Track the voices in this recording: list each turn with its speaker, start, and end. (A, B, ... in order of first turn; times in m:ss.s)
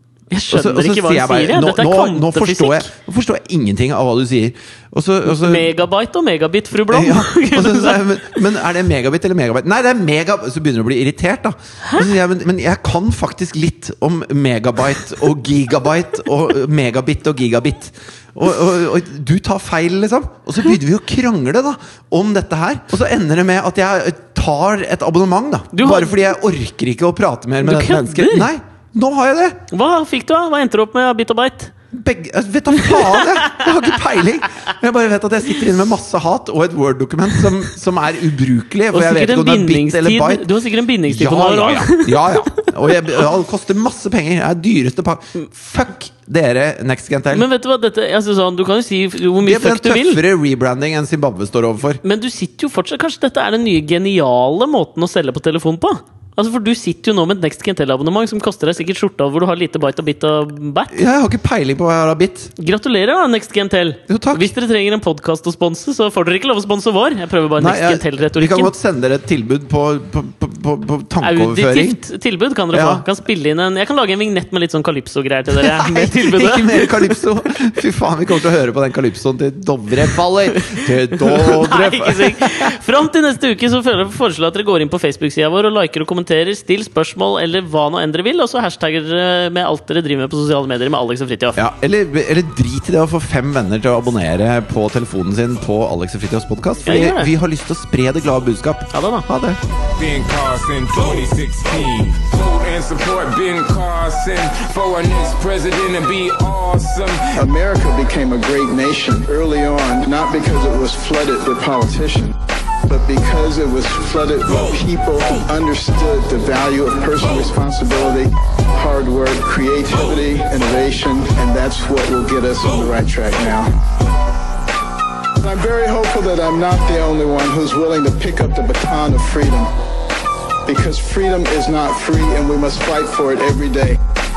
0:00.3-0:02.9 A
0:00.5-0:05.7 B
0:05.2-0:08.1 A
0:06.9-0:29.6 B
0:25.7-0:26.2 A
0:27.6-0:28.5 A
0:29.7-0:31.7 A
0:31.9-0:40.5 B
0:32.8-0:33.7 A
0:38.9-0:42.7 A
0:41.1-0:47.5 B
0:47.3-0:50.2 A
0:49.4-0:52.0 B
0:52.0-1:01.0 A
1:00.9-1:02.5 B
1:02.6-1:08.7 A
1:04.1-1:04.5 B
1:07.6-1:12.0 B
1:11.2-1:17.2 A
1:12.7-1:13.0 B
1:15.5-1:22.8 B
1:20.6-1:31.6 A
1:31.6-1:39.6 B
1:36.9-1:37.3 A
1:38.9-1:39.3 A
1:40.0-1:47.4 C
1:47.4-1:52.4 D
1:52.9-2:03.7 D
2:05.4-2:09.7 D
2:10.7-2:14.0 D